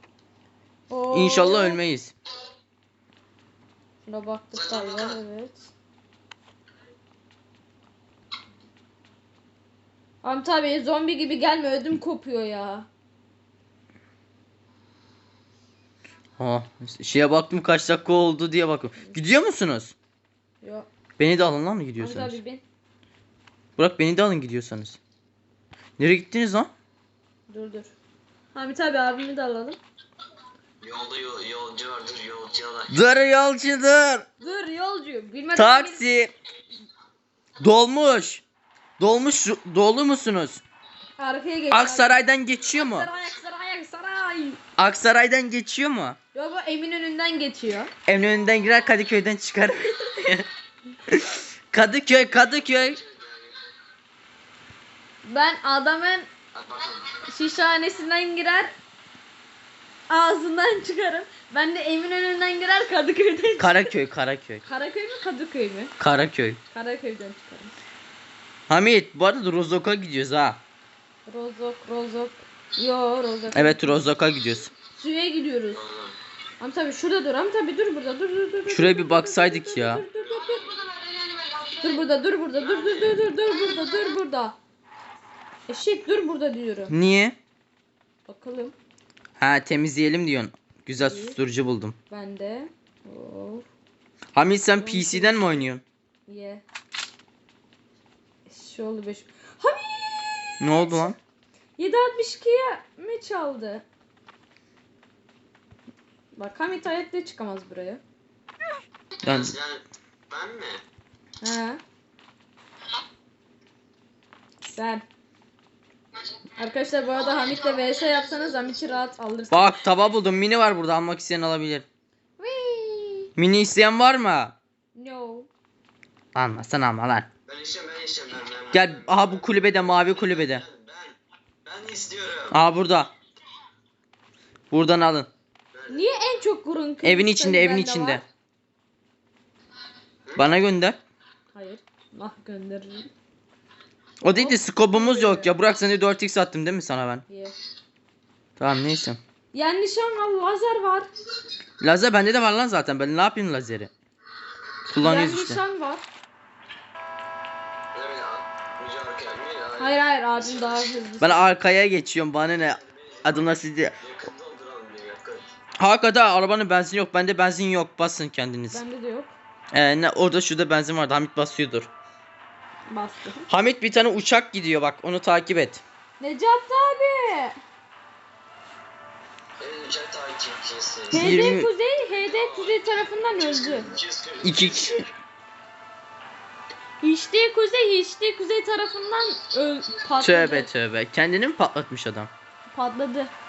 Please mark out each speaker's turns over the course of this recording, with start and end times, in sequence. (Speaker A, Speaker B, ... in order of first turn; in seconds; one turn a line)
Speaker A: 0.9-1.8
Speaker B: 1.1-2.1
Speaker A: 4.0-5.7
Speaker C: 4.5-5.2
Speaker A: 10.2-12.9
Speaker B: 16.4-19.9
Speaker A: 20.6-20.9
Speaker B: 21.2-22.4
Speaker A: 22.0-22.6
Speaker B: 23.8-25.0
Speaker B: 26.0-26.7
Speaker A: 27.5-27.9
Speaker A: 28.5-29.8
Speaker C: 30.8-32.9
Speaker B: 32.9-34.2
Speaker A: 34.4-36.0
Speaker B: 35.5-36.3
Speaker B: 37.6-38.4
Speaker B: 39.0-40.6
Speaker A: 41.2-42.1
Speaker B: 41.7-43.1
Speaker A: 42.7-44.6
Speaker B: 44.8-46.2
Speaker A: 46.3-47.9
Speaker B: 48.1-50.5
Speaker B: 51.1-53.0
Speaker C: 52.6-53.6
Speaker A: 55.2-56.3
Speaker C: 56.5-57.1
Speaker A: 57.3-58.7
Speaker A: 60.1-63.9
Speaker B: 63.6-64.6
Speaker A: 64.6-66.0
Speaker B: 66.0-66.6
Speaker A: 66.7-67.7
Speaker B: 68.7-70.6
Speaker A: 71.3-74.0
Speaker B: 73.5-74.7
Speaker A: 74.9-75.8
Speaker C: 75.7-76.2
Speaker A: 76.6-80.7
Speaker B: 78.7-80.0
Speaker A: 81.8-84.5
Speaker C: 82.6-83.2
Speaker A: 85.7-86.9
Speaker B: 86.9-87.4
Speaker A: 88.2-88.7
Speaker B: 89.4-92.0
Speaker A: 91.0-91.4
Speaker A: 92.1-93.6
Speaker B: 94.3-95.8
Speaker A: 94.8-95.4
Speaker A: 96.3-96.6
Speaker A: 98.5-101.1
Speaker B: 100.6-101.2
Speaker A: 101.8-103.8
Speaker A: 106.3-108.0
Speaker B: 109.2-109.5
Speaker C: 109.2-110.8
Speaker A: 111.4-111.8
Speaker A: 114.6-115.0
Speaker A: 116.6-119.8
Speaker B: 119.5-121.8
Speaker A: 122.4-123.3
Speaker B: 123.3-124.5
Speaker A: 124.9-125.5
Speaker B: 126.3-127.3
Speaker C: 127.5-132.6
Speaker B: 128.7-130.6
Speaker B: 132.5-133.1
Speaker B: 134.7-135.3
Speaker C: 135.7-136.1
Speaker A: 135.9-138.2
Speaker B: 137.0-138.2
Speaker C: 140.3-140.5
Speaker B: 140.3-141.0
Speaker A: 141.5-143.1
Speaker B: 144.2-147.2
Speaker A: 144.3-145.5
Speaker A: 147.3-147.5
Speaker B: 148.6-149.2
Speaker A: 149.5-151.1
Speaker B: 151.8-153.9
Speaker B: 154.9-155.6
Speaker A: 155.0-156.0
Speaker C: 157.9-160.8
Speaker A: 159.8-161.4
Speaker B: 161.2-164.0
Speaker C: 162.6-165.5
Speaker B: 165.8-168.8
Speaker A: 168.7-169.3
Speaker B: 169.7-171.9
Speaker A: 172.9-173.5
Speaker B: 173.5-175.8
Speaker A: 176.2-177.6
Speaker C: 179.6-181.4
Speaker A: 181.1-183.9
Speaker B: 181.1-181.7
Speaker C: 182.1-185.1
Speaker B: 184.4-185.0
Speaker A: 187.0-190.7
Speaker B: 190.2-192.3
Speaker A: 192.7-193.3